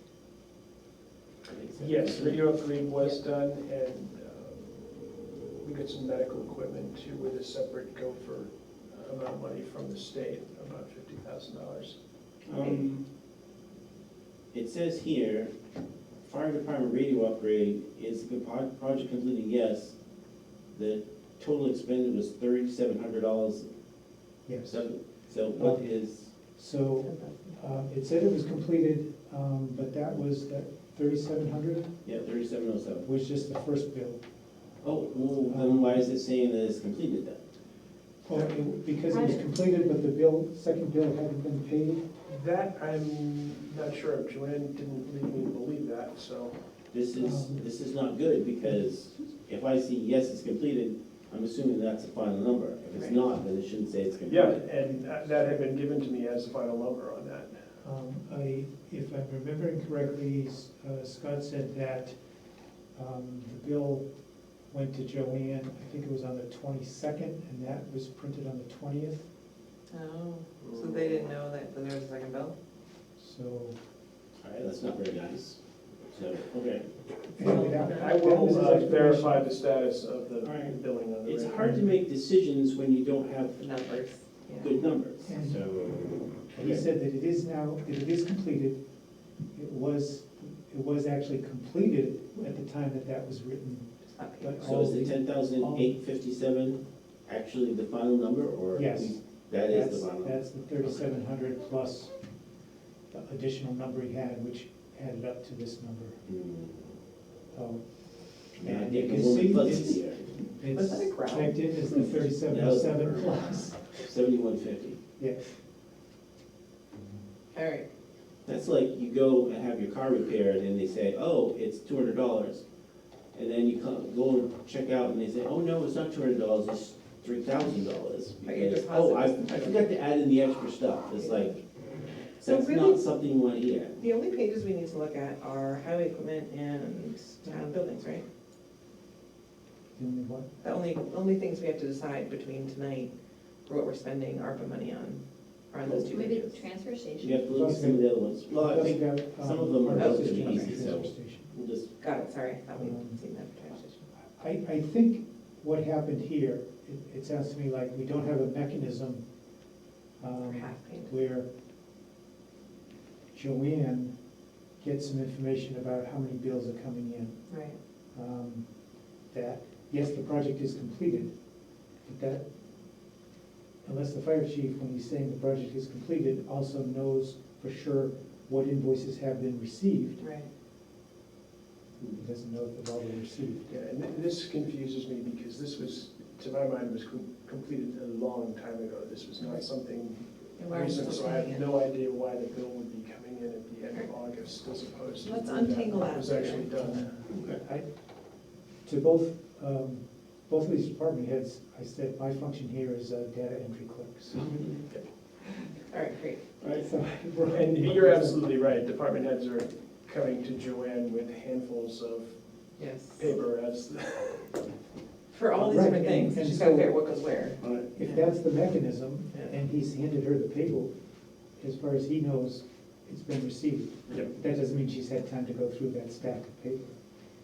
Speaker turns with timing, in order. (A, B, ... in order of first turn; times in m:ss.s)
0:01.5-0:02.5 A
0:01.8-0:12.0 B
0:12.5-0:13.0 A
0:14.5-0:15.5 A
0:16.2-0:20.0 A
0:20.7-0:23.7 A
0:24.5-0:24.8 C
0:24.7-0:26.3 A
0:25.5-0:25.9 C
0:26.6-0:31.9 C
0:27.0-0:27.6 D
0:32.0-0:33.1 A
0:33.0-0:34.2 C
0:34.8-0:37.4 A
0:35.5-0:36.0 C
0:38.2-0:42.1 C
0:39.1-0:39.7 E
0:42.3-0:46.6 B
0:46.9-0:54.6 A
0:47.2-0:47.6 C
0:54.3-0:57.6 B
0:57.8-1:02.1 C
1:03.0-1:04.1 C
1:04.7-1:09.3 C
1:09.9-1:12.6 D
1:10.6-1:11.3 B
1:13.2-1:13.8 C
1:14.4-1:16.9 A
1:17.4-1:18.2 D
1:17.4-1:19.5 C
1:18.0-1:21.7 B
1:20.4-1:23.7 A
1:21.6-1:21.9 C
1:23.6-1:24.7 D
1:24.6-1:26.8 A
1:25.2-1:25.6 C
1:26.5-1:28.8 C
1:29.5-1:35.9 C
1:34.1-1:35.0 D
1:34.6-1:41.0 A
1:38.7-1:42.1 C
1:43.1-1:46.2 C
1:46.3-1:47.0 A
1:47.5-1:54.1 C
1:48.6-1:50.4 A
1:50.6-1:51.7 D
1:51.9-1:55.0 A
1:55.2-1:55.5 C
1:57.5-1:57.8 D
1:58.5-2:02.6 A
2:03.3-2:11.6 A
2:08.4-2:09.9 D
2:11.2-2:11.6 D
2:12.4-2:13.0 D
2:12.4-2:14.0 A
2:14.0-2:18.2 D
2:20.0-2:20.5 C
2:20.6-2:23.1 D
2:23.7-2:26.7 D
2:26.1-2:27.5 E
2:27.2-2:31.9 A
2:27.5-2:31.5 C
2:29.9-2:30.8 D
2:32.0-2:34.0 D
2:32.7-2:33.2 C
2:34.4-2:39.2 C
2:40.2-2:41.5 C
2:40.4-2:41.1 D
2:43.3-2:44.2 C
2:44.8-2:47.4 C
2:47.5-2:47.8 D
2:48.1-2:48.7 C
2:49.3-2:51.3 C
2:52.0-2:52.4 C
2:53.8-3:00.2 C
3:00.2-3:00.5 D
3:02.1-3:03.7 C
3:03.7-3:17.2 B
3:10.6-3:11.7 D
3:15.2-3:16.7 D
3:16.8-3:17.9 C
3:17.3-3:17.6 A
3:18.8-3:24.5 C
3:24.3-3:24.8 A
3:25.7-3:26.4 D
3:26.6-3:26.9 A
3:26.8-3:28.4 C
3:27.5-3:32.4 B
3:32.8-3:33.3 D
3:33.2-3:34.6 B
3:35.3-3:38.3 D
3:35.5-3:36.9 C
3:37.6-3:37.9 A
3:38.0-3:40.9 C
3:41.6-3:47.0 C